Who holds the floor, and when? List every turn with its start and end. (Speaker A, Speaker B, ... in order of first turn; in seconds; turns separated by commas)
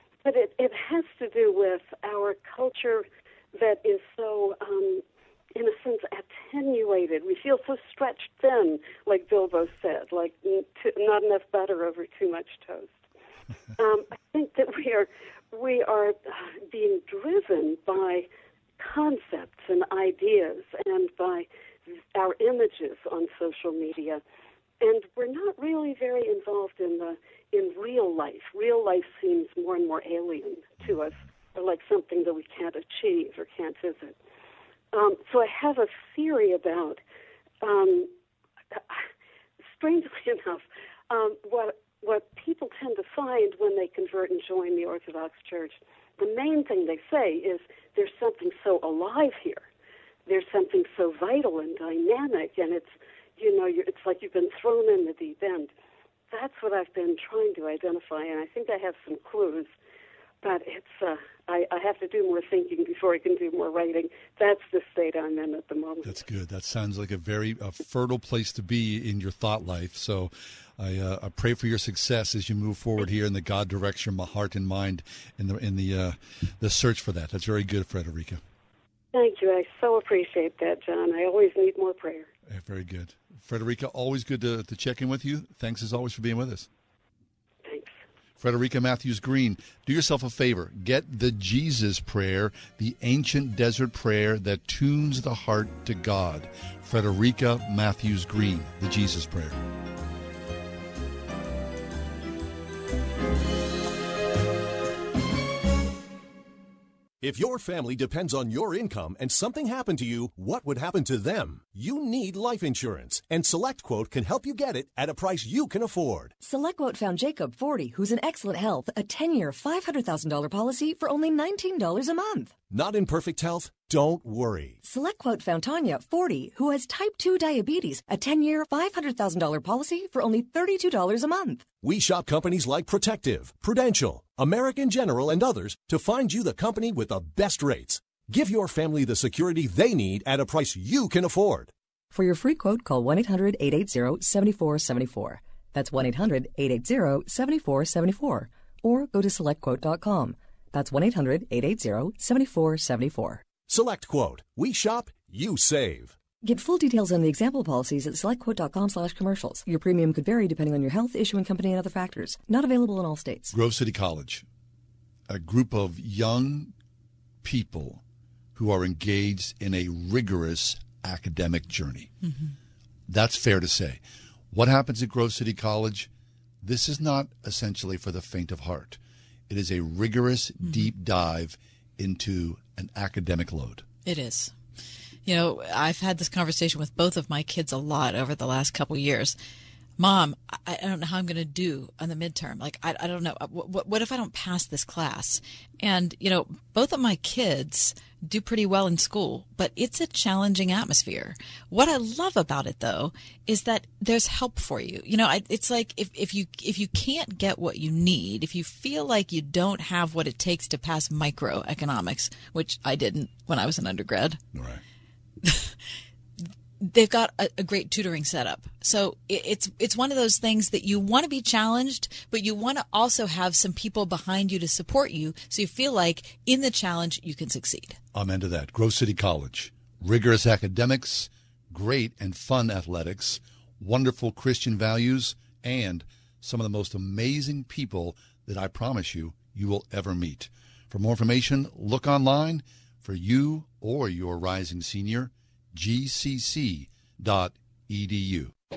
Speaker A: 0.2-5.0, Speaker A: 5.5-13.0, Speaker A: 13.8-18.3, Speaker A: 18.8-24.2, Speaker A: 24.8-34.2, Speaker A: 34.9-37.0, Speaker A: 37.6-38.1, Speaker A: 38.7-39.0, Speaker A: 39.7-49.6, Speaker A: 50.3-55.7, Speaker A: 56.3-59.7, Speaker A: 60.4-66.1, Speaker B: 66.0-78.4, Speaker A: 79.1-82.3, Speaker B: 82.5-86.7, Speaker A: 87.7-87.9, Speaker B: 88.4-99.6, Speaker C: 107.2-116.3, Speaker D: 116.4-122.5, Speaker C: 122.7-124.8, Speaker D: 124.8-131.6, Speaker C: 131.8-141.7, Speaker D: 142.1-153.4, Speaker C: 153.7-156.2, Speaker D: 156.4-163.5, Speaker B: 163.5-164.4, Speaker B: 165.3-166.7, Speaker B: 167.4-168.0, Speaker B: 168.6-172.1, Speaker B: 173.1-174.0, Speaker B: 174.5-176.1, Speaker B: 176.6-183.8, Speaker E: 180.6-180.9, Speaker E: 184.0-184.5, Speaker E: 185.2-189.3, Speaker E: 190.0-214.4, Speaker E: 216.8-228.0, Speaker B: 228.1-248.5